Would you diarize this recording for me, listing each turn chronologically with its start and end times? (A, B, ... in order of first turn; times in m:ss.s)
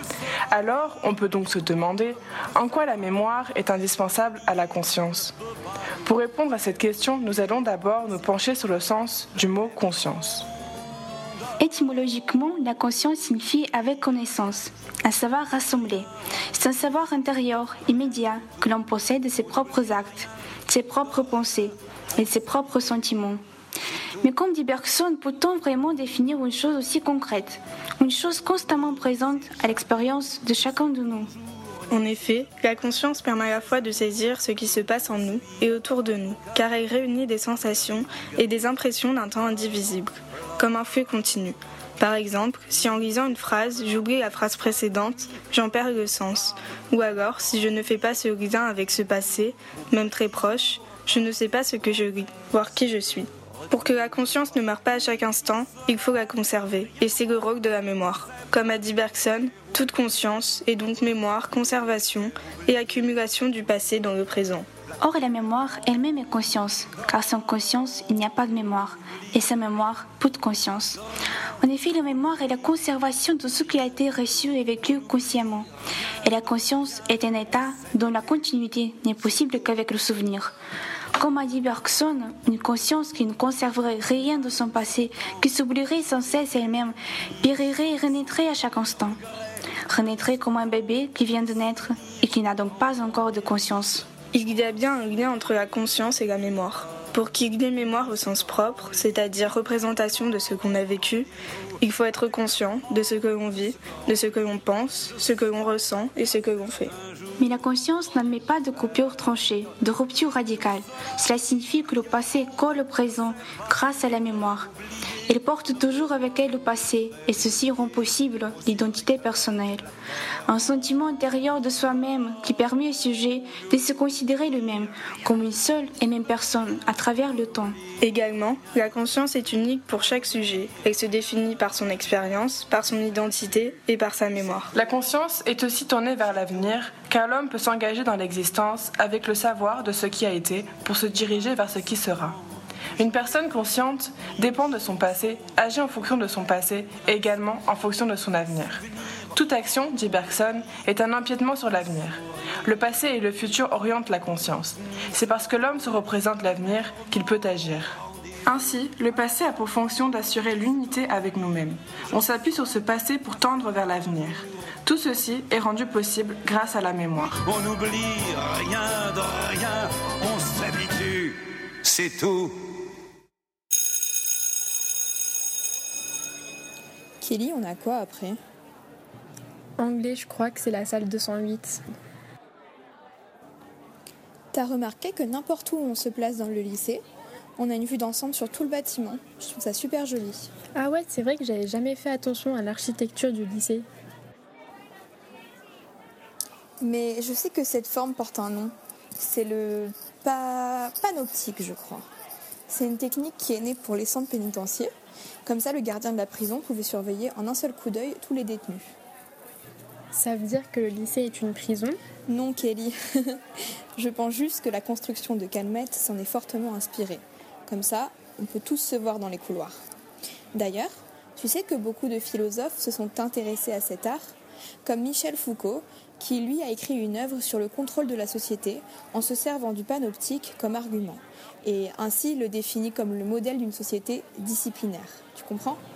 0:00.5-0:05.3 A
0:06.0-0:10.5 A
0:11.6-0:23.4 B
0:24.2-0:31.3 B
0:31.9-1:04.7 C
1:05.0-1:11.0 B
1:11.6-1:15.7 B
1:16.2-1:20.5 B
1:21.2-1:29.2 B
1:29.9-1:34.1 B
1:34.3-1:41.3 C
1:41.8-1:46.9 C
1:47.4-1:54.7 B
1:55.3-1:59.8 B
2:00.5-2:07.8 B
2:08.0-2:14.7 C
2:14.7-2:22.4 A
2:23.0-2:28.8 A
2:29.3-2:47.4 A
2:47.4-2:52.5 D
2:57.2-2:58.4 E
2:59.8-3:01.8 F
3:04.5-3:07.0 E
3:07.6-3:10.5 E
3:10.8-3:13.8 F
3:16.8-3:22.1 E
3:22.7-3:24.9 E
3:25.5-3:28.9 E
3:30.1-3:32.0 F
3:32.3-3:33.4 E
3:34.0-3:39.8 E
3:40.6-3:55.8 E